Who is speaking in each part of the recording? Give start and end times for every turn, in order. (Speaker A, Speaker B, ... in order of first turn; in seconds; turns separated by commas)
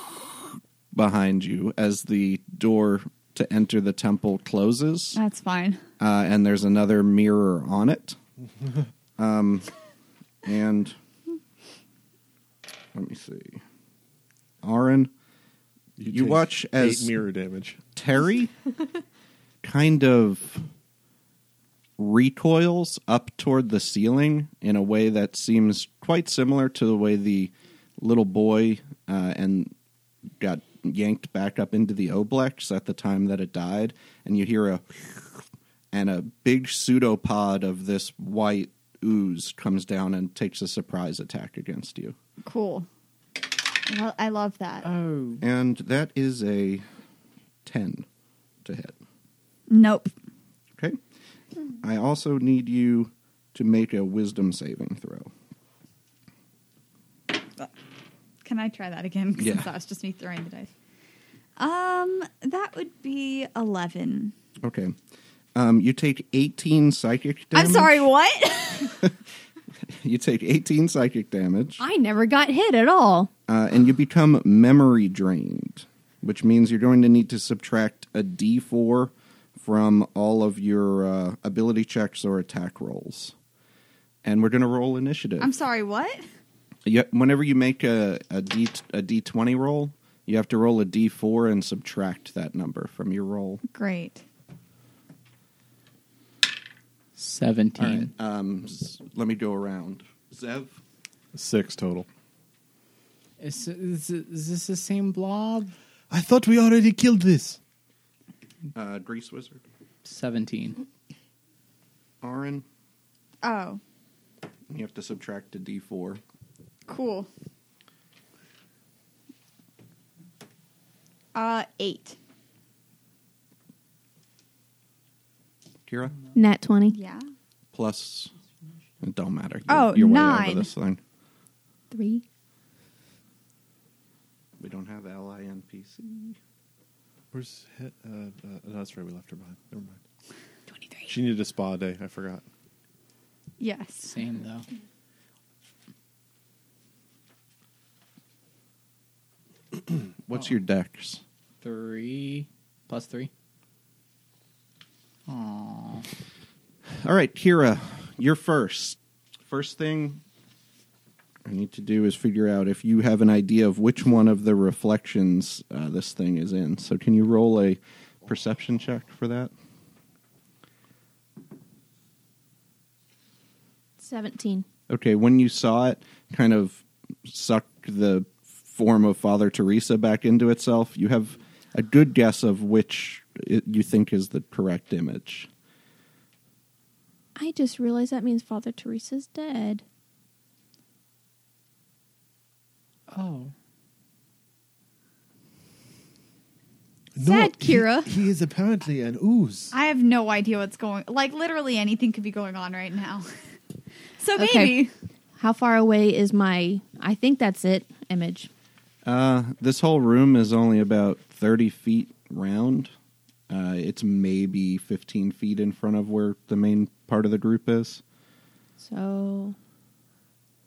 Speaker A: 0.9-5.2, Speaker B: 5.2-5.8, Speaker A: 6.0-8.2, Speaker A: 9.2-9.7, Speaker A: 10.4-11.0, Speaker A: 12.9-13.6, Speaker A: 14.6-15.1, Speaker C: 16.0-17.8, Speaker A: 16.1-17.1, Speaker A: 18.0-18.5, Speaker A: 19.6-20.7, Speaker A: 22.0-29.7, Speaker A: 30.4-42.2, Speaker B: 42.4-42.9, Speaker B: 43.8-44.9, Speaker D: 44.8-45.4, Speaker A: 45.4-46.8, Speaker A: 47.6-48.1, Speaker A: 48.6-49.0, Speaker B: 49.7-50.1, Speaker A: 51.8-55.3, Speaker B: 58.4-60.7, Speaker A: 59.4-59.7, Speaker B: 61.6-64.3, Speaker A: 64.6-65.0, Speaker A: 65.5-68.1, Speaker B: 67.5-69.0, Speaker A: 69.9-71.8, Speaker E: 71.8-73.3, Speaker A: 73.5-83.3, Speaker A: 84.2-85.5, Speaker B: 85.4-86.2, Speaker A: 86.9-93.6, Speaker B: 93.7-94.2, Speaker D: 97.2-98.1, Speaker A: 97.8-100.8, Speaker C: 101.3-102.1, Speaker D: 103.4-105.7, Speaker C: 106.1-107.6, Speaker A: 108.7-109.6, Speaker D: 110.0-110.8, Speaker A: 112.2-112.7, Speaker B: 113.4-113.8, Speaker A: 114.7-116.2, Speaker B: 116.9-117.3, Speaker B: 121.3-122.2, Speaker A: 125.9-126.2, Speaker E: 126.3-127.0, Speaker B: 126.9-127.3, Speaker A: 127.7-128.3, Speaker A: 129.0-131.0, Speaker B: 129.7-130.7, Speaker E: 131.9-132.2, Speaker A: 134.6-136.4, Speaker C: 137.3-140.0, Speaker C: 141.1-142.4, Speaker B: 143.6-144.2, Speaker D: 144.1-144.7, Speaker A: 150.3-151.2, Speaker D: 151.6-153.3, Speaker D: 155.3-156.1, Speaker A: 157.0-160.2, Speaker A: 161.4-169.5, Speaker E: 174.0-174.7, Speaker A: 174.9-185.5, Speaker E: 187.4-189.8, Speaker D: 193.1-193.5, Speaker C: 197.2-199.7, Speaker B: 197.2-198.0, Speaker B: 199.7-203.4, Speaker B: 204.2-204.9, Speaker E: 204.4-204.8, Speaker E: 205.4-208.5, Speaker A: 209.1-212.9, Speaker A: 213.5-218.0, Speaker E: 218.8-219.6